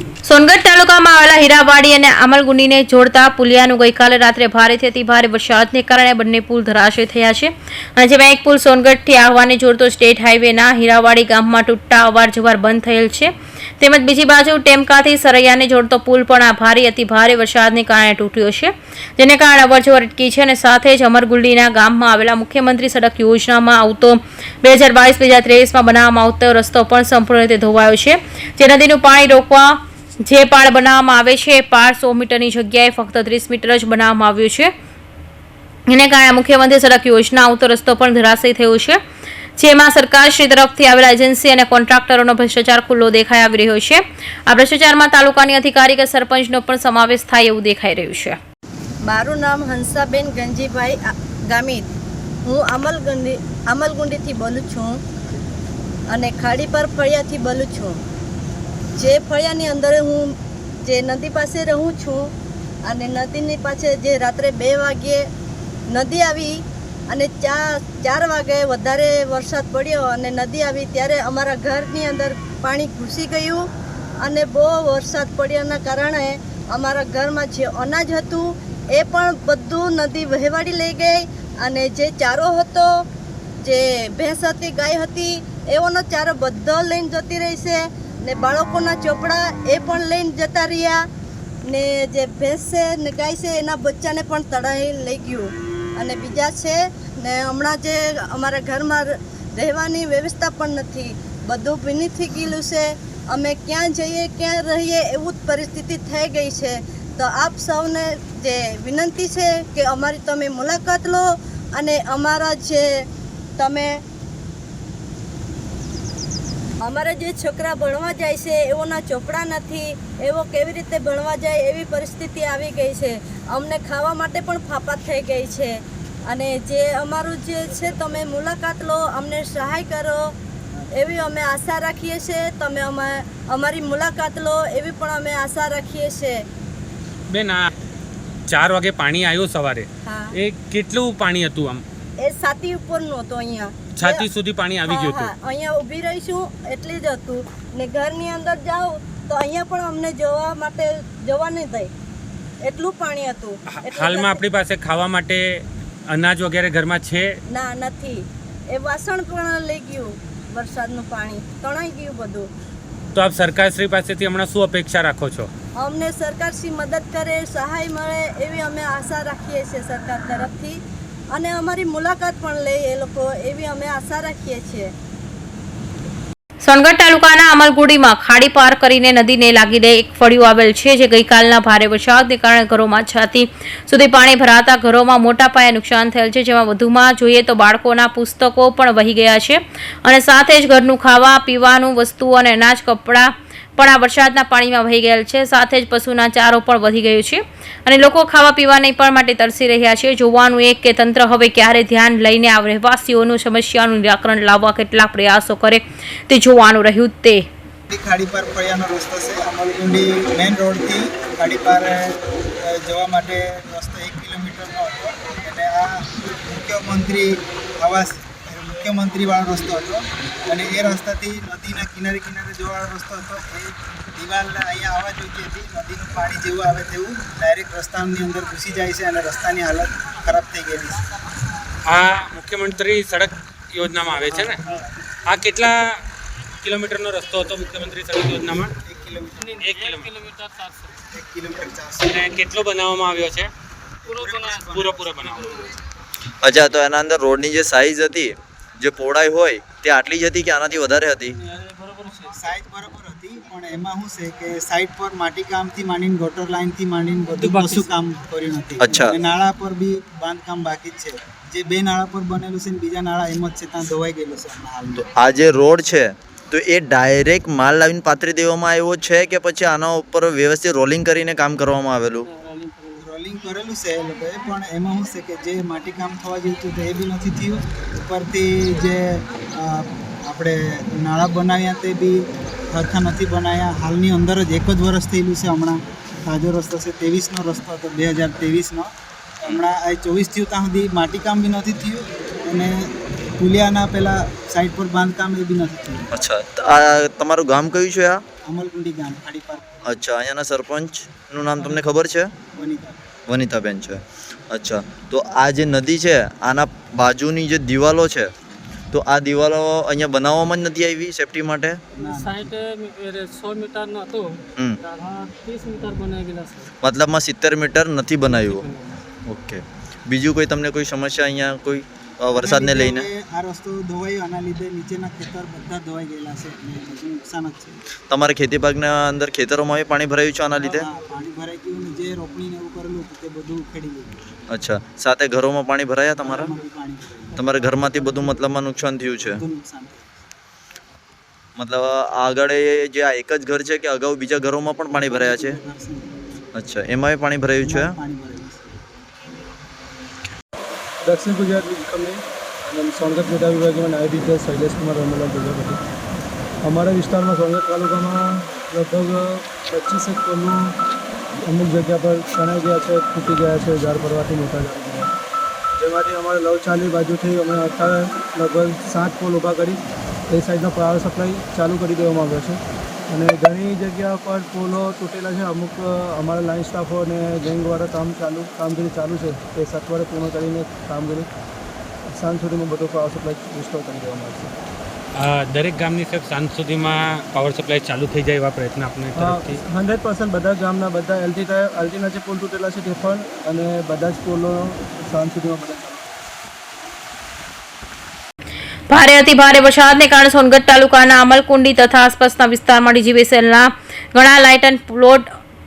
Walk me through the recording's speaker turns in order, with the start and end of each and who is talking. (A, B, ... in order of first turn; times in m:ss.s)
0:00.2-0:34.7 A
0:35.9-0:39.0 A
0:39.6-0:48.4 A
0:49.0-0:51.9 B
0:52.4-0:55.0 B
0:56.1-0:58.0 B
0:59.0-1:00.3 B
1:00.8-1:02.3 B
1:02.8-1:05.2 B
1:05.9-1:13.6 B
1:14.2-1:22.9 B
1:23.6-1:31.0 B
1:31.7-1:52.9 B
1:53.6-1:53.9 B
1:56.8-2:10.3 B
2:11.0-2:16.4 B
2:17.3-2:17.7 C
2:18.5-2:21.8 C
2:20.0-2:20.3 B
2:22.2-2:24.2 B
2:24.0-2:25.3 C
2:24.9-2:31.9 B
2:32.6-2:34.4 B
2:33.7-2:37.3 C
2:37.5-2:42.5 B
2:43.1-2:45.5 C
2:45.8-2:50.8 B
2:51.3-2:54.9 B
2:56.6-3:27.4 A
3:27.9-3:51.1 D
3:51.9-3:54.6 C
3:54.1-3:54.9 D
3:55.2-3:55.8 C
3:56.6-3:58.7 C
3:58.8-3:59.6 D
3:59.4-4:00.9 E
3:59.6-4:00.1 C
4:01.1-4:02.3 D
4:02.0-4:03.5 C
4:04.1-4:05.7 D
4:04.1-4:04.5 E
4:04.6-4:05.7 C
4:06.4-4:11.4 F
4:11.4-4:12.5 E
4:12.3-4:25.0 D
4:17.3-4:17.9 E
4:18.8-4:19.1 F
4:25.0-4:32.3 F
4:32.3-4:33.1 E
4:33.0-4:42.2 D
4:42.7-4:56.2 D
4:56.1-4:58.2 F
4:58.4-4:59.8 D
4:59.8-5:02.3 F
5:02.5-5:03.1 D
5:03.3-5:04.0 F
5:04.5-5:08.3 F
5:08.9-5:11.8 F
5:12.0-5:14.3 E
5:12.0-5:12.5 D
5:14.8-5:16.7 E
5:16.8-5:18.6 F
5:18.3-5:18.9 E
5:19.3-5:23.1 F
5:22.3-5:27.8 D
5:28.1-5:30.9 F
5:30.8-5:34.2 D
5:34.5-5:36.5 F
5:36.2-5:38.5 D
5:37.4-5:39.4 F
5:39.2-5:40.1 D
5:41.6-5:45.6 F
5:44.9-5:46.1 D
5:46.5-5:47.9 F
5:47.6-5:49.0 D
5:51.0-5:55.8 G
5:56.6-6:00.7 G
6:01.4-6:05.1 G
6:05.8-6:21.3 G
6:22.1-6:24.5 G
6:25.2-6:29.6 C
6:29.1-6:36.2 G
6:38.9-6:45.2 A